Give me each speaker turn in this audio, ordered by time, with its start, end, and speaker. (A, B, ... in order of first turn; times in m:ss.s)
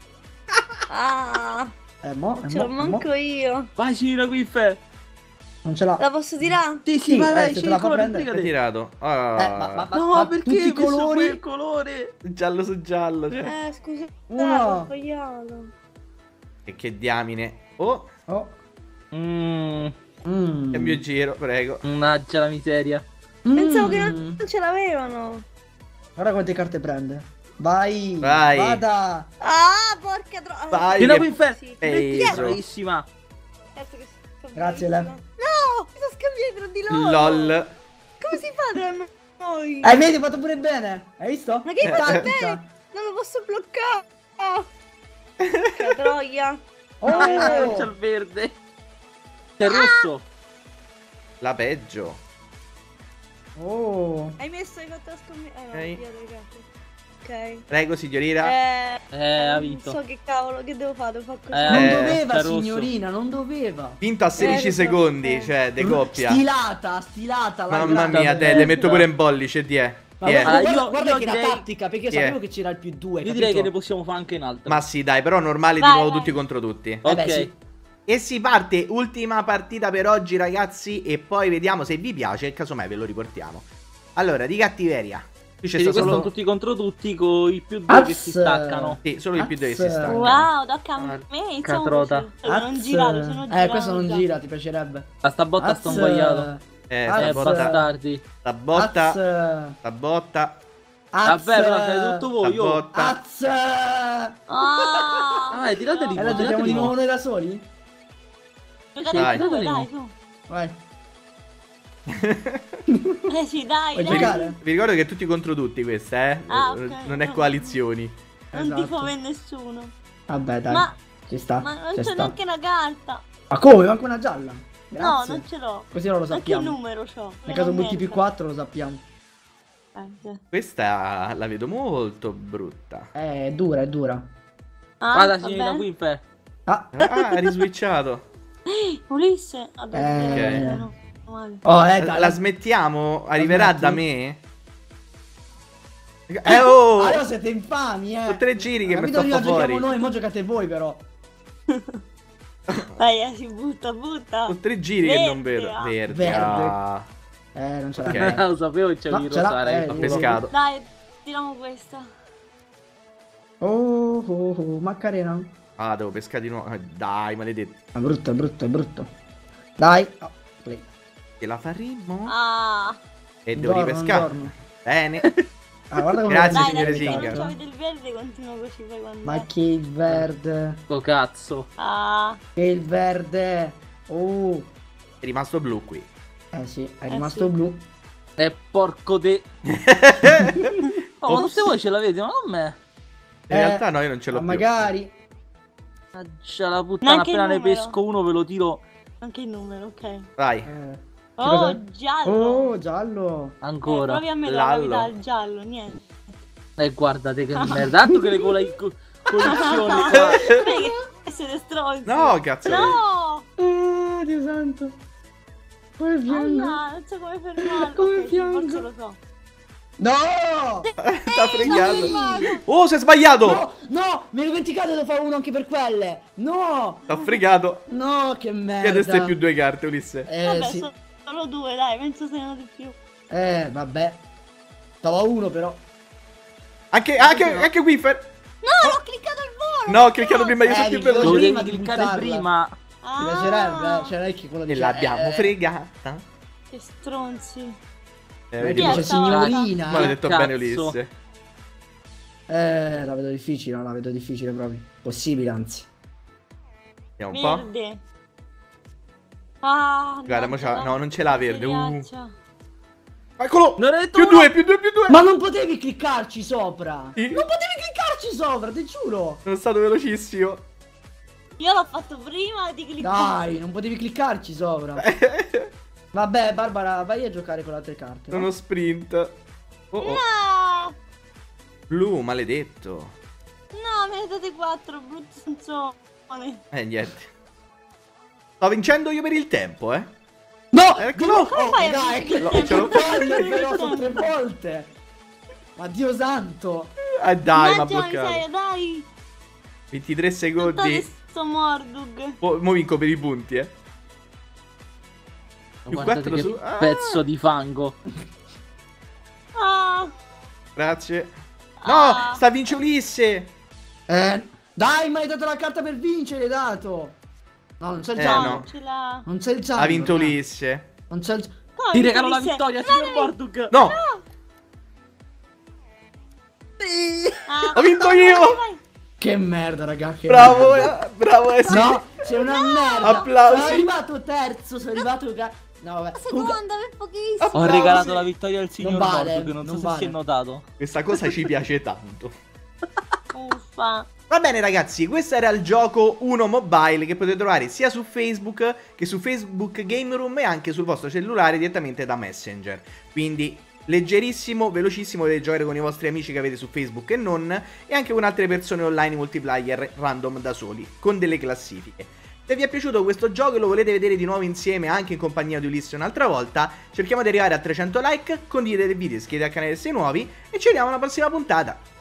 0:00.9-0:01.7 A
0:02.0-0:03.0 B
0:02.4-0:03.7 A
0:03.8-0:04.8 C
0:05.6-0:08.2 B
0:06.0-0:06.8 A
0:06.8-0:08.5 C
0:08.3-0:09.9 D
0:09.4-0:11.4 B
0:09.9-0:12.1 C
0:12.2-0:13.5 D
0:13.4-0:15.7 A
0:14.3-0:14.9 B
0:16.7-0:18.1 D
0:18.3-0:18.6 B
0:19.1-0:19.9 C
0:20.2-0:21.0 B
0:20.7-0:21.8 D
0:21.8-0:23.0 C
0:23.4-0:24.4 B
0:23.5-0:25.4 A
0:26.2-0:29.3 B
0:28.2-0:28.8 D
0:29.4-0:32.4 A
0:30.7-0:32.6 D
0:31.0-0:33.1 C
0:33.8-0:37.6 A
0:34.5-0:35.1 B
0:36.9-0:37.8 D
0:38.2-0:39.9 A
0:39.8-0:42.7 B
0:41.6-0:44.6 A
0:41.8-0:42.3 D
0:45.4-0:46.1 D
0:45.7-0:47.7 A
0:47.0-0:47.9 B
0:47.1-0:48.6 C
0:49.6-0:50.2 C
0:49.6-0:50.0 A
0:51.4-0:52.2 D
0:53.6-0:54.4 B
0:54.4-0:56.6 A
0:55.7-0:56.0 D
0:57.2-0:57.6 A
0:57.7-0:58.5 D
0:58.4-1:01.9 A
0:59.1-1:00.0 C
1:01.5-1:02.9 C
1:01.7-1:04.9 B
1:01.7-1:02.2 D
1:04.0-1:06.4 D
1:04.4-1:05.5 A
1:05.8-1:08.7 B
1:07.7-1:10.6 D
1:08.1-1:09.1 C
1:10.2-1:13.7 B
1:10.4-1:11.6 C
1:12.1-1:12.4 D
1:13.2-1:14.8 C
1:14.6-1:17.0 D
1:15.8-1:16.4 A
1:17.0-1:17.5 C
1:17.0-1:17.5 B
1:18.1-1:26.3 D
1:25.8-1:29.0 C
1:25.9-1:26.3 B
1:27.9-1:30.3 B
1:29.0-1:31.2 D
1:30.1-1:34.2 A
1:31.6-1:32.3 C
1:32.4-1:37.9 B
1:35.2-1:36.5 C
1:36.9-1:37.8 D
1:37.2-1:38.2 C
1:38.4-1:39.2 D
1:38.7-1:39.8 B
1:39.8-1:40.6 D
1:41.1-1:42.3 B
1:41.2-1:42.8 C
1:42.4-1:43.2 D
1:42.9-1:44.4 B
1:44.5-1:46.8 A
1:45.5-1:46.9 C
1:46.1-1:47.6 B
1:48.9-1:49.9 C
1:49.0-1:50.1 A
1:49.1-1:49.4 D
1:50.5-1:50.8 B
1:52.1-1:52.6 D
1:52.9-1:53.2 B
1:53.3-1:54.6 A
1:53.9-1:54.6 B
1:54.1-1:58.2 D
1:56.5-1:57.8 A
1:58.5-1:59.1 B
1:58.5-1:59.9 A
2:00.3-2:02.3 B
2:00.7-2:01.0 A
2:01.6-2:03.2 A
2:03.5-2:06.8 B
2:05.0-2:08.2 A
2:07.5-2:09.0 B
2:09.9-2:10.4 A
2:10.5-2:13.1 D
2:13.1-2:14.3 B
2:15.0-2:15.8 A
2:15.1-2:16.2 C
2:16.7-2:17.0 B
2:16.9-2:18.2 D
2:18.7-2:21.6 A
2:19.9-2:20.9 B
2:20.2-2:20.7 D
2:21.6-2:22.4 B
2:22.0-2:24.4 D
2:23.4-2:24.0 B
2:26.3-2:27.2 D
2:26.5-2:31.0 B
2:28.2-2:29.8 D
2:31.7-2:32.0 A
2:32.9-2:35.9 A
2:34.5-2:37.1 D
2:36.1-2:36.8 B
2:37.5-2:38.4 B
2:38.0-2:38.4 D
2:38.1-2:40.4 C
2:39.1-2:40.4 B
2:39.9-2:40.5 D
2:40.5-2:42.0 A
2:43.6-2:45.5 B
2:45.8-2:47.8 D
2:47.9-2:49.1 B
2:49.8-2:50.9 B
2:51.4-2:52.3 D
2:52.3-2:53.0 A
2:53.4-2:55.2 D
2:53.6-2:54.5 B
2:55.9-2:57.6 B
2:56.3-2:57.5 D
2:56.5-2:59.5 A
2:59.2-3:00.8 B
3:00.9-3:01.7 C
3:01.8-3:02.4 A
3:02.6-3:04.7 B
3:05.2-3:06.1 D
3:06.5-3:07.8 B
3:07.1-3:07.5 A
3:08.4-3:09.4 C
3:09.8-3:10.8 D
3:11.2-3:12.8 C
3:11.3-3:11.7 D
3:13.5-3:14.9 D
3:13.5-3:15.1 B
3:16.1-3:18.8 C
3:17.0-3:18.0 A
3:19.2-3:20.2 A
3:20.4-3:20.7 D
3:20.6-3:23.6 B
3:21.4-3:22.7 A
3:23.6-3:24.2 C
3:23.8-3:26.0 A
3:24.4-3:25.1 D
3:26.8-3:30.4 C
3:27.5-3:27.8 A
3:27.7-3:28.4 B
3:29.4-3:30.9 B
3:29.4-3:33.4 A
3:30.3-3:30.5 D
3:32.0-3:33.0 D
3:33.6-3:34.9 B
3:36.0-3:36.8 B
3:36.3-3:39.2 A
3:37.6-3:38.9 B
3:40.0-3:40.9 B
3:40.8-3:42.4 A
3:41.0-3:43.6 D
3:41.6-3:42.6 B
3:43.4-3:47.0 B
3:47.1-3:47.4 A
3:47.1-3:47.8 D
3:47.9-3:49.4 B
3:48.8-3:50.3 D
3:50.2-3:50.9 B
3:50.4-3:52.9 A
3:53.3-3:54.2 B
3:55.0-3:55.8 B
3:56.9-3:58.2 D
3:57.2-3:57.6 B
3:58.6-4:00.8 A
3:59.9-4:01.5 D
4:00.6-4:02.5 B
4:01.2-4:02.8 C
4:03.0-4:04.1 A
4:03.2-4:05.5 B
4:04.7-4:06.2 D
4:06.7-4:07.8 A
4:08.5-4:09.1 D
4:08.6-4:10.2 B
4:08.7-4:09.7 A
4:09.3-4:11.0 C
4:09.9-4:11.1 D
4:12.5-4:15.9 B
4:17.2-4:17.7 D
4:17.3-4:18.0 A
4:19.6-4:22.3 A
4:20.2-4:22.1 D
4:23.4-4:25.2 D
4:23.8-4:24.5 C
4:25.1-4:29.4 B
4:27.2-4:27.4 D
4:29.4-4:30.6 D
4:31.6-4:33.4 A
4:33.0-4:35.0 B
4:35.0-4:35.7 D
4:36.1-4:38.5 B
4:38.3-4:39.3 D
4:39.9-4:40.2 D
4:40.0-4:40.9 A
4:41.9-4:43.1 D
4:43.7-4:46.6 A
4:46.7-4:47.3 D
4:48.6-4:50.1 D
4:50.7-4:54.9 B
4:51.0-4:51.6 D
4:51.3-4:54.2 A
4:52.4-4:53.5 D
4:55.8-4:56.9 B
4:57.2-4:58.4 D
4:57.4-4:59.1 A
4:59.9-5:01.0 D
5:00.6-5:02.3 A
5:02.4-5:03.7 D
5:05.8-5:08.0 C
5:05.9-5:07.0 D
5:09.6-5:10.1 A
5:10.8-5:13.5 D
5:11.8-5:12.4 A
5:14.1-5:17.2 B
5:17.8-5:18.7 B
5:18.2-5:18.7 D
5:18.2-5:19.2 A
5:19.2-5:20.4 B
5:19.8-5:20.9 D
5:21.1-5:21.5 B
5:21.8-5:24.2 A
5:21.9-5:23.7 C
5:23.7-5:24.0 D
5:26.8-5:27.4 C
5:27.5-5:28.8 A
5:27.7-5:28.6 D
5:29.2-5:30.9 B
5:30.3-5:32.0 D
5:31.6-5:33.8 A
5:31.7-5:36.6 B
5:33.0-5:33.9 D
5:36.1-5:38.2 A
5:37.4-5:38.2 D
5:37.5-5:40.6 C
5:38.8-5:40.1 B
5:40.8-5:42.3 D
5:43.3-5:44.1 A
5:44.3-6:11.8 D